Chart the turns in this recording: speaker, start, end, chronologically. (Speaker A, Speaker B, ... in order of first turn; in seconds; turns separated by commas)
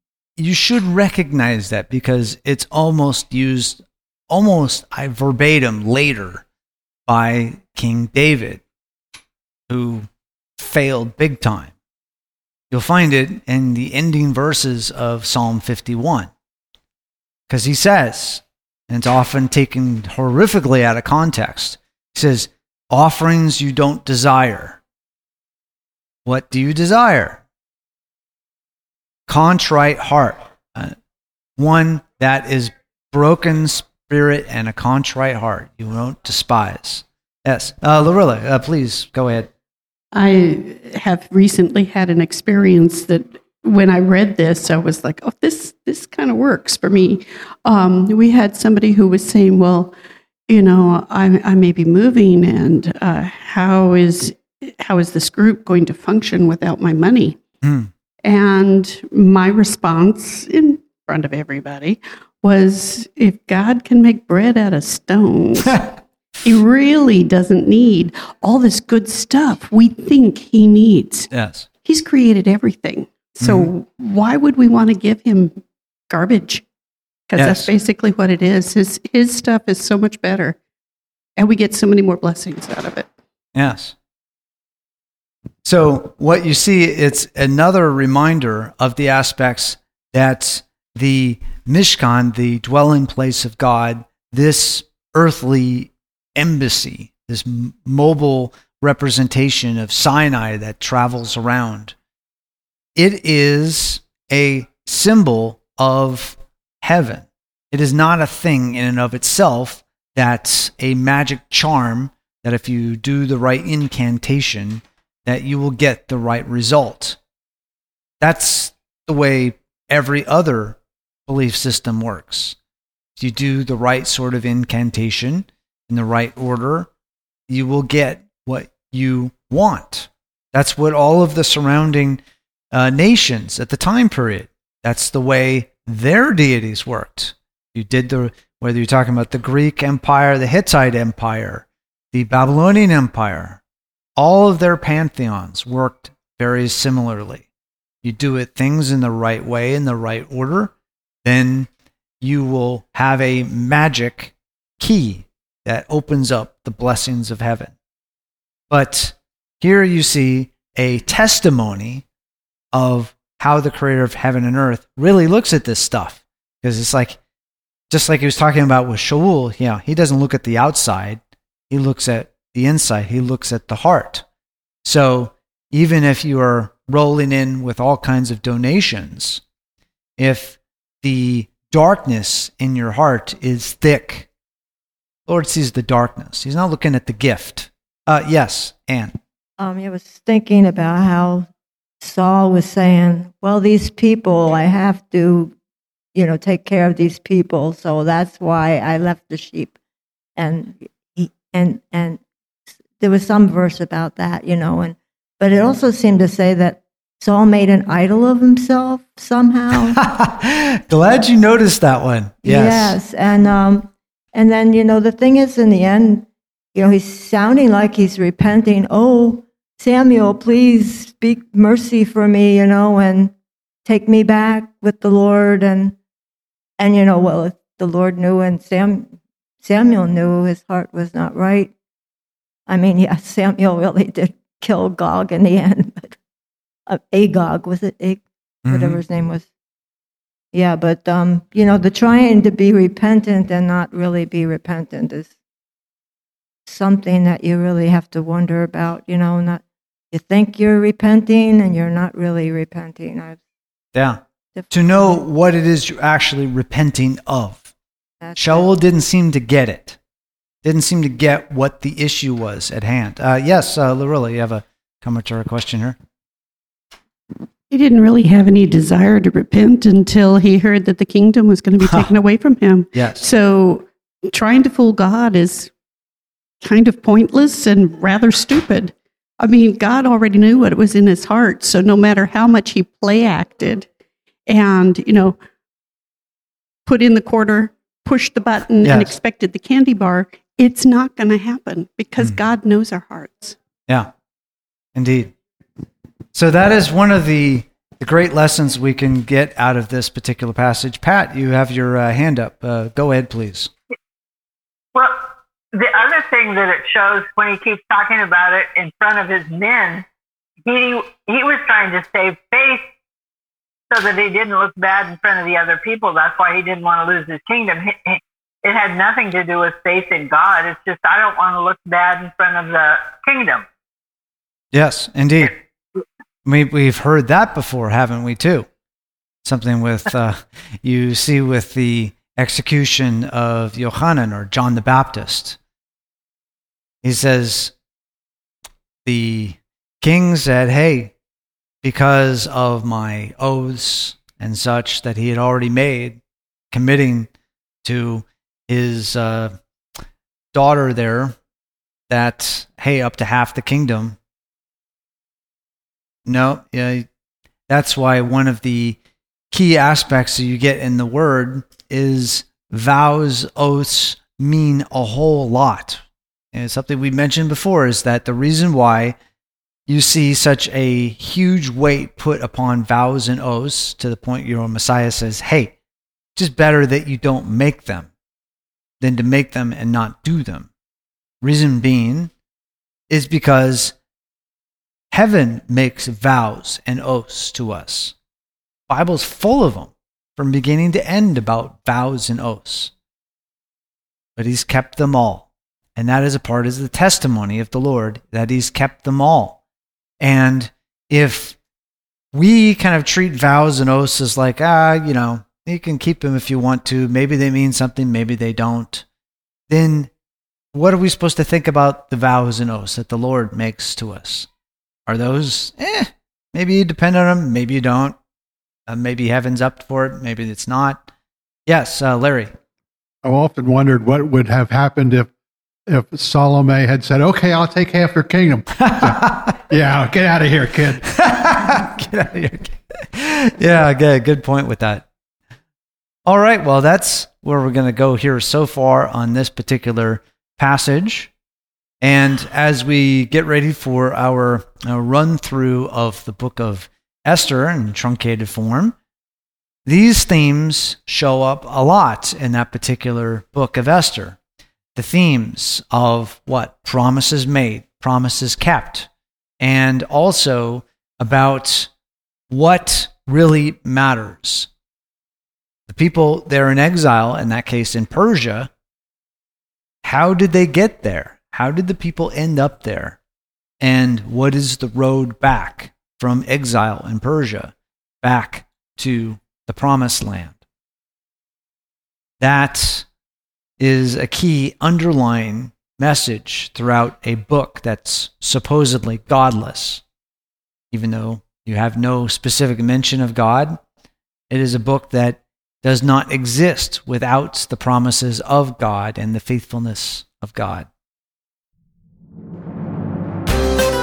Speaker A: 0.4-6.4, Speaker A: 7.1-8.6, Speaker A: 9.7-11.7, Speaker A: 12.7-16.3, Speaker A: 17.5-24.8, Speaker A: 26.2-27.4, Speaker A: 29.3-30.9, Speaker A: 31.6-39.5, Speaker B: 40.1-50.0, Speaker B: 50.5-57.4, Speaker A: 57.6-57.9, Speaker B: 58.2-65.9, Speaker B: 66.4-71.3, Speaker A: 71.3-71.7, Speaker B: 71.8-76.7, Speaker A: 73.4-73.7, Speaker B: 77.3-80.6, Speaker A: 77.4-77.7, Speaker B: 81.4-83.1, Speaker A: 83.5-84.0, Speaker A: 85.6-102.0, Speaker A: 103.0-117.2, Speaker A: 118.2-122.6, Speaker A: 123.2-126.9, Speaker A: 127.5-132.2, Speaker A: 132.7-143.6, Speaker A: 144.2-147.5, Speaker A: 148.0-150.7, Speaker A: 151.2-151.7, Speaker A: 152.2-157.7, Speaker A: 158.7-162.1, Speaker A: 162.7-167.2, Speaker A: 167.9-171.2, Speaker A: 171.7-174.2, Speaker A: 174.8-179.4, Speaker A: 180.2-184.3, Speaker A: 185.3-189.2, Speaker C: 189.6-191.5, Speaker C: 192.0-195.5, Speaker C: 196.1-199.8, Speaker C: 200.4-202.2, Speaker C: 203.0-210.0, Speaker A: 209.9-213.0, Speaker C: 212.4-223.3, Speaker C: 223.9-226.0, Speaker C: 226.8-231.7, Speaker C: 232.7-236.2, Speaker C: 236.9-239.5, Speaker A: 238.6-239.0, Speaker C: 240.5-245.3, Speaker C: 246.7-253.4, Speaker A: 253.9-257.7, Speaker C: 254.6-255.2, Speaker C: 258.2-258.7, Speaker A: 258.4-260.0, Speaker A: 260.6-266.0, Speaker B: 267.7-275.7, Speaker A: 271.8-272.1, Speaker A: 272.9-273.3, Speaker B: 276.6-283.9, Speaker B: 284.5-285.4, Speaker B: 286.9-293.6, Speaker A: 288.8-289.1, Speaker A: 294.9-295.3, Speaker A: 296.3-303.7, Speaker D: 304.9-310.1, Speaker D: 310.6-312.9, Speaker D: 313.9-323.6, Speaker A: 324.7-325.5, Speaker A: 326.4-328.7, Speaker A: 329.4-335.6, Speaker A: 337.0-337.7, Speaker A: 339.1-341.1, Speaker A: 341.8-346.2, Speaker A: 346.7-347.3, Speaker A: 347.8-349.5, Speaker A: 350.5-351.4, Speaker A: 352.1-354.2, Speaker A: 356.3-357.1, Speaker A: 357.7-359.0, Speaker A: 359.5-369.2, Speaker A: 369.9-375.8, Speaker A: 376.4-378.1, Speaker A: 379.0-380.7, Speaker A: 381.4-382.3, Speaker A: 383.1-383.9, Speaker A: 385.1-388.1, Speaker A: 388.9-392.9, Speaker A: 394.4-399.6, Speaker A: 400.2-401.6, Speaker A: 402.3-409.1, Speaker A: 409.7-410.1, Speaker A: 410.7-414.5, Speaker A: 415.1-418.2, Speaker A: 418.9-421.1, Speaker A: 421.7-422.5, Speaker E: 423.2-425.3, Speaker E: 425.9-431.1, Speaker A: 428.8-429.6, Speaker A: 431.1-435.1, Speaker A: 436.3-441.3, Speaker A: 442.0-449.0, Speaker A: 449.9-454.4, Speaker A: 454.9-459.1, Speaker A: 459.6-461.9, Speaker A: 462.5-464.7, Speaker A: 465.9-468.7, Speaker A: 470.0-473.2, Speaker A: 473.8-480.6, Speaker A: 482.4-483.1, Speaker A: 483.8-490.0, Speaker A: 490.9-493.8, Speaker A: 494.5-500.9